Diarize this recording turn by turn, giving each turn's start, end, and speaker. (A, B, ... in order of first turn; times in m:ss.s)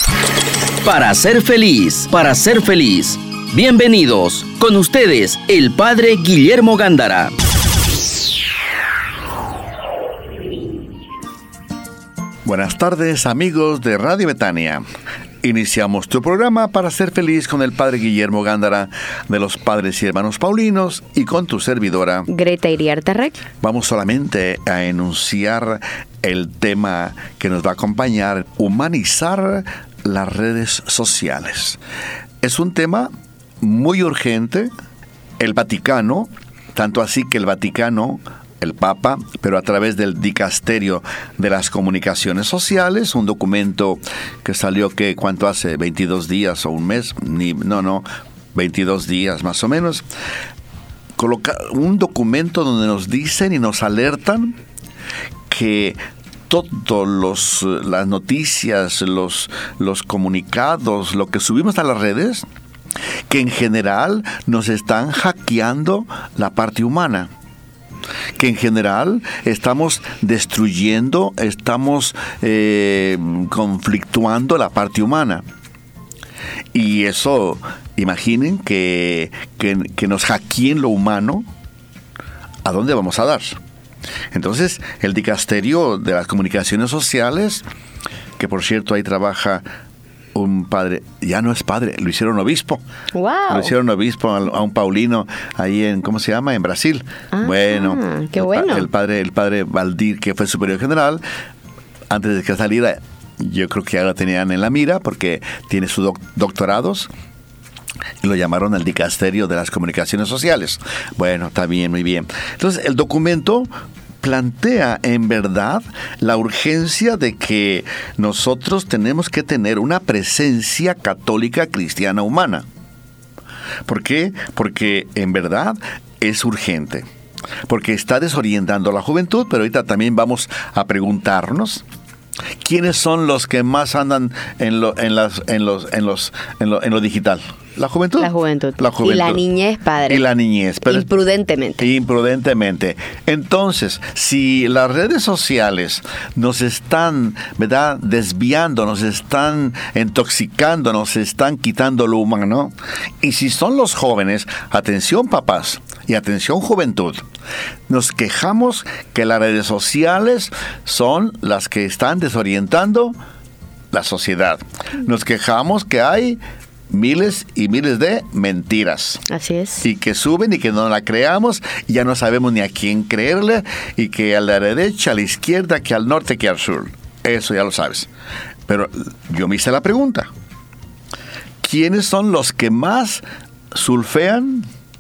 0:00.8-0:07.3 A
0:12.4-0:14.8 B
0:15.4-0:22.3 B
0:22.3-0:23.4 C
0:23.6-0:31.8 B
0:32.4-0:34.7 B
0:35.4-0:50.0 B
0:51.2-0:54.6 B
0:55.5-1:02.4 B
1:03.3-1:07.3 B
1:08.4-1:15.4 B
1:16.7-1:21.5 B
1:22.6-1:23.6 B
1:24.3-1:27.6 B
1:28.4-1:29.6 B
1:30.3-1:32.8 B
1:33.1-1:33.7 C
1:33.5-1:41.2 B
1:37.3-1:38.9 C
1:42.1-1:47.1 B
1:48.2-1:53.7 B
1:54.2-2:02.7 B
2:03.9-2:07.1 B
2:07.7-2:11.8 B
2:12.6-2:19.4 B
2:18.2-2:20.2 C
2:20.1-2:21.1 B
2:20.9-2:21.8 C
2:21.8-2:37.3 B
2:37.9-2:43.2 B
2:43.9-2:46.4 B
2:46.9-2:49.2 B
2:49.3-2:49.8 C
2:49.8-2:58.1 B
2:58.7-3:00.3 B
3:01.6-3:04.7 B